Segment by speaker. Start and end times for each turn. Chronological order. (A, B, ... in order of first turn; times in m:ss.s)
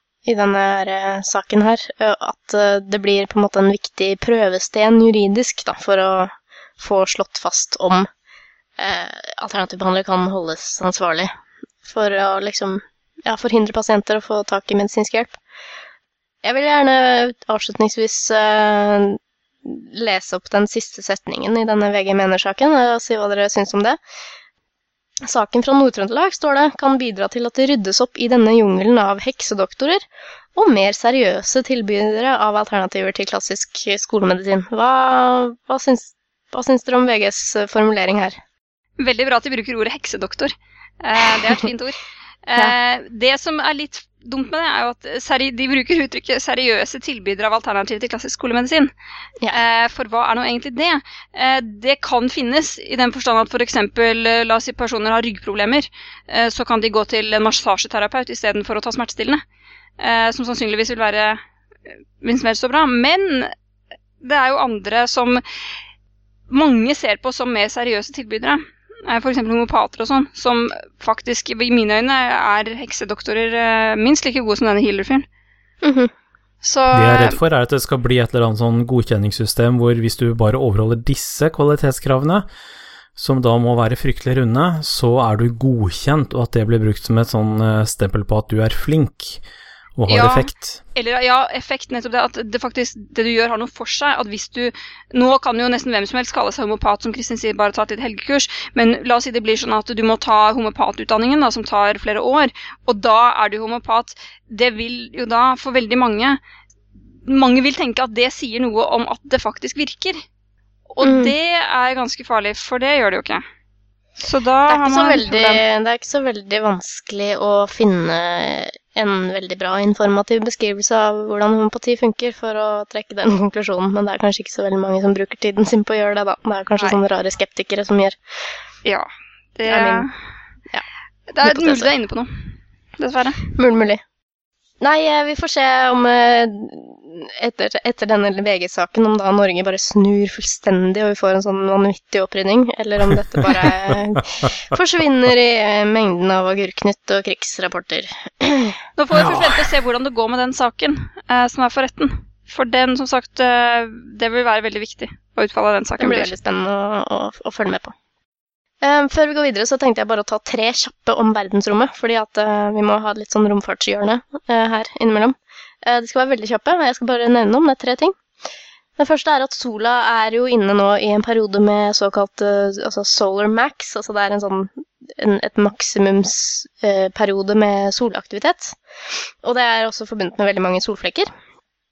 0:00.2-0:08.1 A
0:08.8-0:11.3 A
0:11.8-0:15.4 A
0:16.4-0:24.0 A
0:25.2-0:30.0 A
0:30.5-0:38.4 A
0:39.0-0:48.9 B
0:41.3-0:41.6 A
0:49.5-0:59.4 B
1:00.0-1:01.4 B
1:02.2-1:03.5 B
1:04.2-1:05.4 B
1:06.5-1:15.2 B
1:15.8-1:16.1 A
1:16.6-1:17.4 B
1:16.9-1:22.4 C
1:23.2-1:29.4 C
1:30.0-1:30.8 C
1:30.1-1:46.4 B
1:47.2-1:50.2 B
1:50.9-1:53.4 B
1:51.0-1:51.3 A
1:54.2-1:55.6 B
1:54.7-2:08.2 A
2:08.8-2:10.1 B
2:09.7-2:10.1 A
2:11.3-2:13.5 B
2:11.4-2:11.9 A
2:13.5-2:14.0 A
2:14.8-2:28.8 A
2:29.0-2:36.3 B
2:29.1-2:29.6 C
2:36.0-2:37.9 A
2:38.8-2:48.2 A
2:49.0-2:58.8 A
2:59.4-3:01.3 A